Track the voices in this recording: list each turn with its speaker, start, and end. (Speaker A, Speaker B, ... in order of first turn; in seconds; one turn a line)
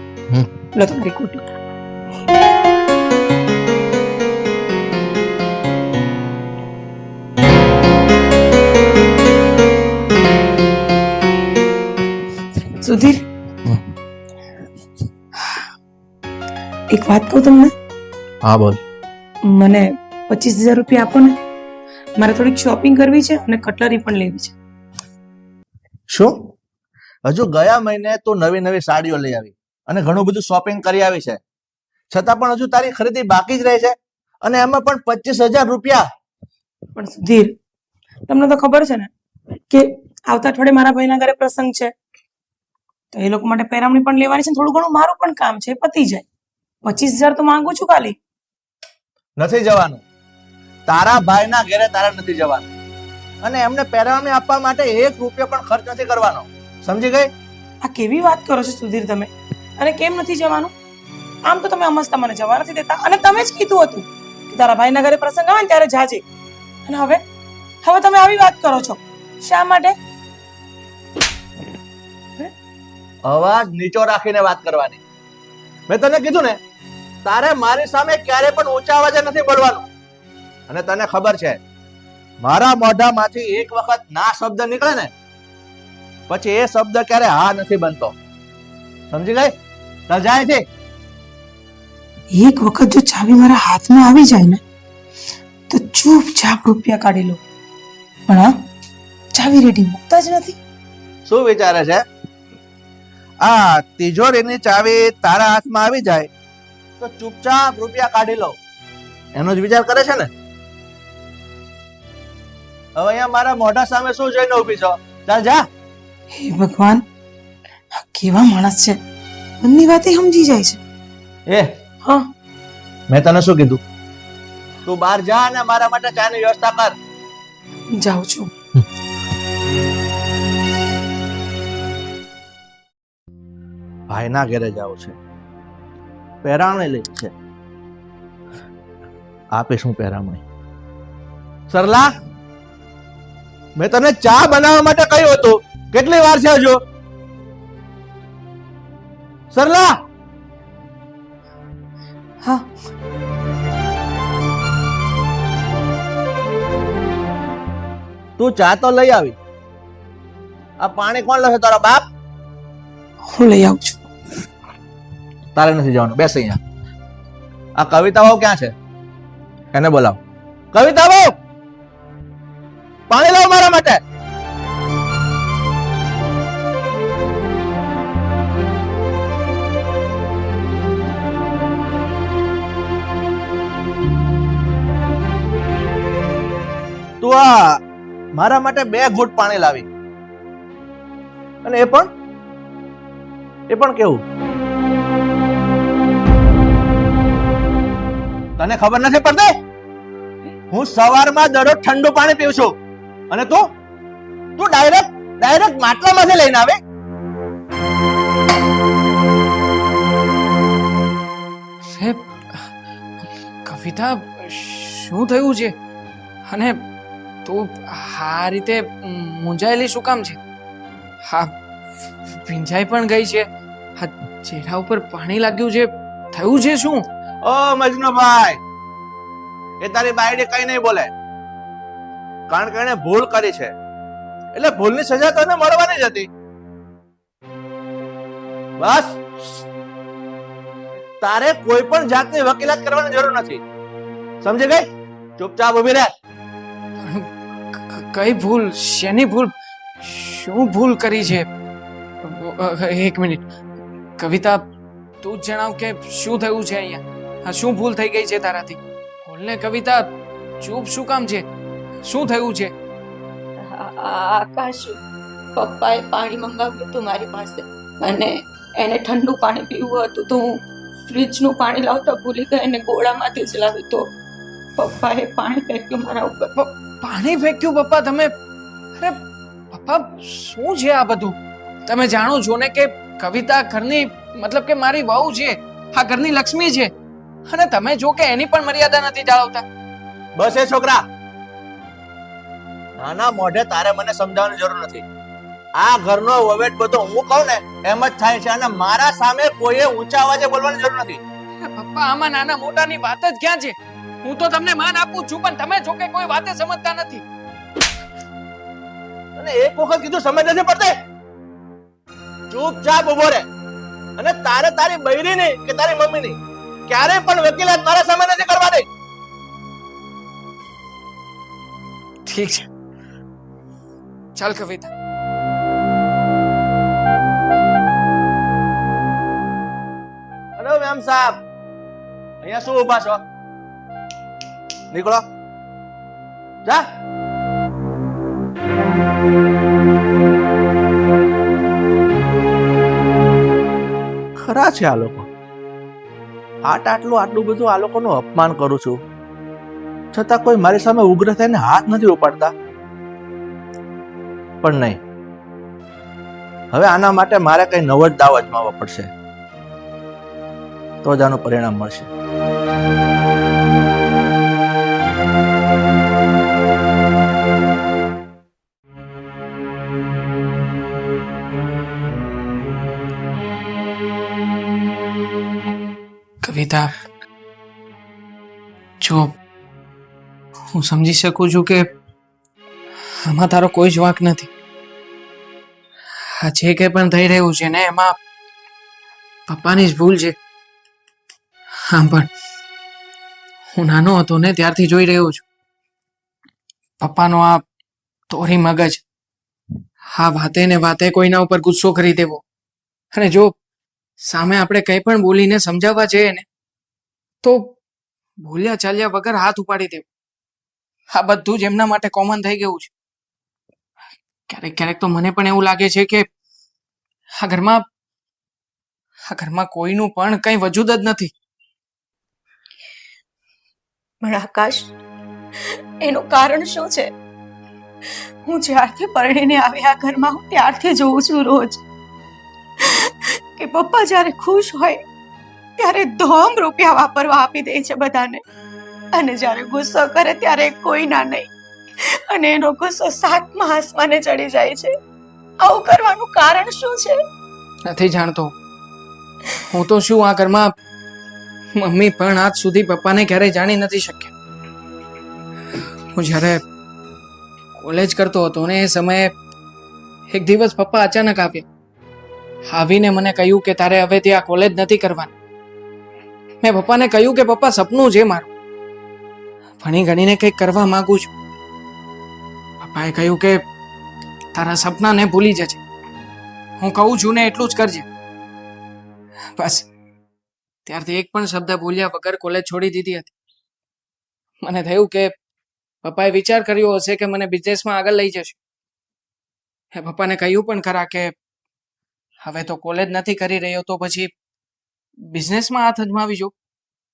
Speaker A: 0.7-1.4
Speaker A: 12.8-13.3
Speaker A: 16.9-17.7
Speaker B: 18.4-18.8
Speaker A: 19.4-21.4
Speaker A: 22.2-24.6
Speaker B: 26.1-26.4
Speaker B: 27.3-31.4
Speaker B: 32.1-36.0
Speaker A: 36.9-37.5
Speaker A: 38.3-39.1
Speaker A: 39.7-41.9
Speaker A: 43.1-46.2
Speaker A: 46.8-48.2
Speaker B: 49.4-50.0
Speaker B: 50.9-52.7
Speaker B: 53.4-57.3
Speaker A: 57.8-60.7
Speaker A: 61.5-66.2
Speaker A: 66.9-67.2
Speaker A: 67.8-70.0
Speaker B: 73.3-75.0
Speaker B: 75.9-76.6
Speaker B: 77.2-79.8
Speaker B: 80.7-81.6
Speaker B: 82.4-85.1
Speaker B: 86.3-88.2
Speaker B: 89.1-89.5
Speaker B: 90.1-90.6
Speaker A: 92.3-94.6
Speaker A: 95.7-97.4
Speaker A: 99.3-100.6
Speaker B: 101.3-102.0
Speaker B: 103.4-106.3
Speaker B: 107.0-108.6
Speaker B: 109.3-110.3
Speaker B: 113.0-115.6
Speaker A: 116.3-117.0
Speaker A: 117.9-119.0
Speaker A: 119.6-120.8
Speaker B: 123.1-123.8
Speaker B: 124.9-127.0
Speaker A: 128.0-128.5
Speaker B: 134.1-135.2
Speaker B: 136.4-137.3
Speaker B: 139.5-140.4
Speaker B: 141.7-142.1
Speaker B: 143.8-146.8
Speaker B: 149.5-149.9
Speaker B: 158.4-159.3
Speaker B: 160.8-162.0
Speaker A: 163.3-164.1
Speaker B: 165.6-166.6
Speaker B: 167.8-168.7
Speaker B: 169.7-170.2
Speaker B: 170.7-171.3
Speaker B: 173.1-174.0
Speaker B: 187.2-187.8
Speaker B: 188.3-189.9
Speaker B: 191.6-192.1
Speaker B: 193.7-194.2
Speaker B: 198.6-199.5
Speaker B: 200.7-202.8
Speaker B: 203.3-203.7
Speaker B: 204.6-206.8
Speaker C: 211.9-212.7
Speaker C: 213.7-215.7
Speaker C: 216.5-216.8
Speaker C: 217.4-220.4
Speaker C: 222.3-223.5
Speaker C: 224.0-227.1
Speaker B: 227.4-228.6
Speaker B: 229.8-231.1
Speaker B: 232.5-233.7
Speaker B: 234.5-236.3
Speaker B: 238.8-239.6
Speaker B: 241.2-243.6
Speaker B: 244.4-244.8
Speaker B: 245.4-246.1
Speaker C: 247.0-251.5
Speaker C: 252.2-253.4
Speaker C: 254.2-254.6
Speaker C: 255.2-260.1
Speaker C: 260.6-261.4
Speaker C: 262.0-262.7
Speaker D: 263.7-265.0
Speaker D: 265.6-270.6
Speaker D: 271.1-274.1
Speaker D: 274.8-276.5
Speaker C: 276.6-278.3
Speaker C: 279.7-286.9
Speaker C: 287.5-289.6
Speaker B: 290.4-291.0
Speaker B: 293.0-295.1
Speaker B: 295.8-301.2
Speaker C: 301.6-307.2
Speaker B: 309.4-310.9
Speaker B: 312.5-313.4
Speaker B: 314.2-318.9
Speaker C: 322.3-322.7
Speaker C: 324.4-324.9
Speaker B: 330.6-331.4
Speaker B: 332.4-333.2
Speaker B: 334.9-335.2
Speaker B: 344.4-345.3
Speaker B: 346.6-349.0
Speaker B: 350.1-352.5
Speaker B: 354.6-355.0
Speaker B: 356.7-359.1
Speaker B: 361.0-362.1
Speaker C: 376.4-376.9
Speaker C: 379.0-379.3
Speaker C: 380.7-381.8
Speaker C: 383.2-384.5
Speaker C: 386.4-388.2
Speaker C: 389.5-390.4
Speaker C: 391.9-392.3
Speaker C: 393.8-395.4
Speaker C: 397.0-397.6
Speaker C: 398.3-399.0
Speaker C: 400.1-402.4
Speaker C: 403.1-403.6
Speaker C: 404.2-406.4
Speaker C: 407.4-407.8
Speaker C: 408.4-410.1
Speaker C: 411.1-412.9
Speaker C: 414.5-416.2
Speaker C: 417.4-417.8
Speaker C: 419.3-421.3
Speaker D: 424.2-424.9
Speaker D: 425.6-427.1
Speaker D: 428.1-431.8
Speaker D: 432.8-435.0
Speaker D: 435.8-438.4
Speaker D: 439.1-444.9
Speaker D: 445.6-447.2
Speaker C: 447.9-448.5
Speaker C: 449.7-450.7
Speaker C: 451.8-454.3
Speaker C: 456.1-456.6
Speaker C: 457.8-459.3
Speaker C: 460.3-461.6
Speaker C: 462.7-465.3
Speaker C: 466.6-468.5
Speaker C: 469.8-471.3
Speaker C: 472.8-473.6
Speaker C: 474.5-475.8
Speaker C: 476.8-478.1
Speaker C: 479.6-479.9
Speaker C: 480.9-483.3
Speaker C: 484.6-485.3
Speaker C: 486.0-488.6
Speaker C: 489.9-491.3
Speaker C: 492.4-494.3
Speaker C: 495.3-496.5